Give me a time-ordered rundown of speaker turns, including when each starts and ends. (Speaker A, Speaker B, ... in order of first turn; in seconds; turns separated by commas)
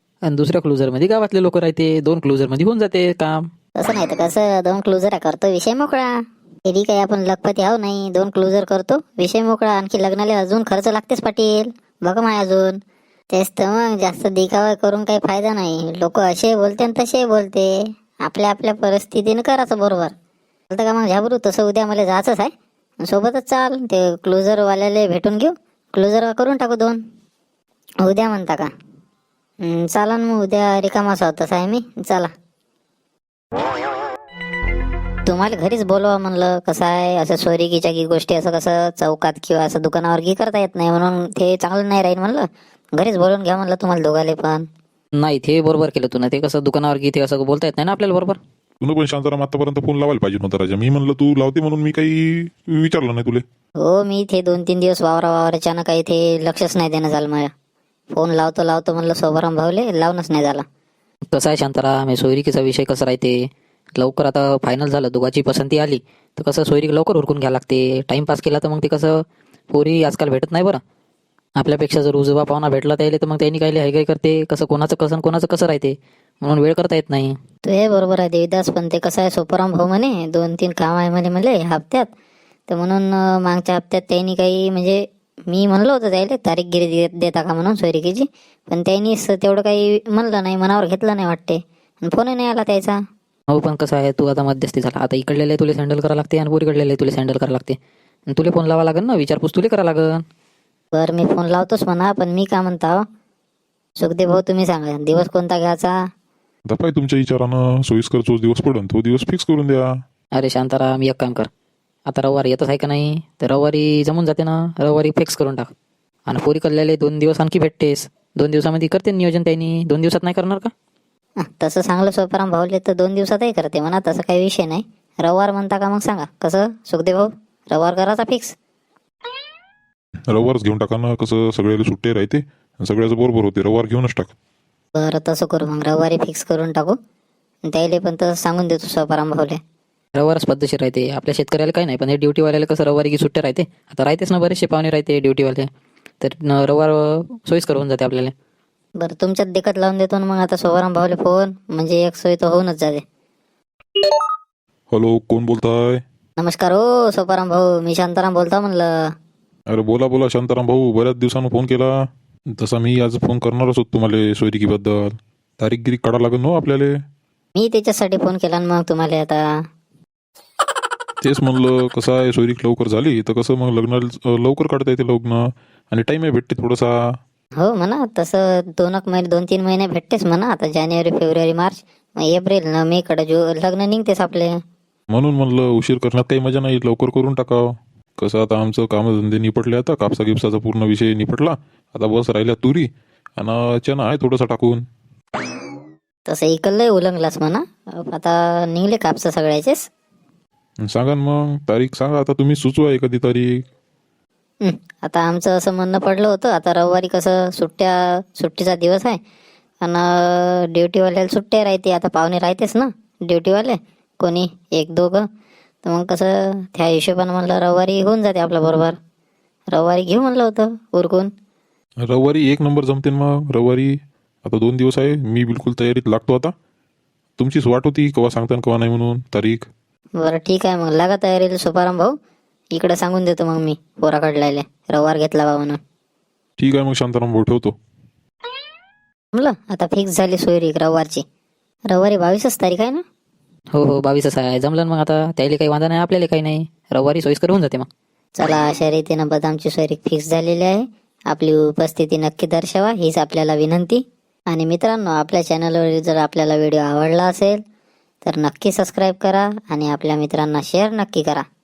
Speaker A: 0.2-3.5, Speaker B: 3.8-6.1, Speaker B: 6.7-12.8, Speaker B: 13.3-17.7, Speaker B: 18.2-20.1, Speaker B: 20.7-22.5, Speaker B: 23.0-27.0, Speaker B: 28.0-28.7, Speaker B: 29.6-32.3, Speaker B: 35.2-44.6, Speaker A: 45.1-48.4, Speaker C: 48.8-53.4, Speaker B: 53.8-57.5, Speaker B: 58.1-60.6, Speaker A: 61.3-63.4, Speaker A: 64.0-70.8, Speaker A: 71.6-77.3, Speaker B: 77.6-82.1, Speaker B: 82.7-93.0, Speaker A: 93.5-97.8, Speaker A: 98.3-100.2, Speaker B: 100.9-103.0, Speaker B: 104.0-105.9, Speaker C: 106.7-109.8, Speaker A: 110.3-111.5, Speaker A: 112.1-115.7, Speaker A: 116.3-120.7, Speaker B: 121.4-128.5, Speaker C: 130.3-134.3, Speaker B: 134.9-137.0, Speaker B: 137.7-139.6, Speaker A: 140.2-145.7, Speaker A: 146.2-148.3, Speaker B: 149.0-153.0, Speaker C: 154.9-156.0, Speaker B: 156.4-158.9, Speaker C: 159.7-161.9, Speaker C: 162.6-166.9, Speaker B: 167.6-169.4, Speaker C: 171.2-176.9, Speaker B: 177.6-184.5, Speaker C: 185.1-187.6, Speaker C: 188.2-194.8, Speaker B: 196.3-199.9, Speaker C: 200.8-203.5, Speaker B: 204.6-209.2, Speaker B: 209.8-215.2, Speaker B: 215.8-219.0, Speaker B: 219.7-221.3, Speaker C: 222.1-223.9, Speaker C: 224.4-226.5, Speaker C: 227.4-229.7, Speaker B: 230.2-232.1, Speaker B: 232.7-235.8, Speaker C: 236.6-237.7, Speaker B: 239.3-241.2, Speaker B: 241.9-243.0, Speaker A: 243.7-247.9, Speaker B: 248.4-257.6, Speaker B: 258.2-261.4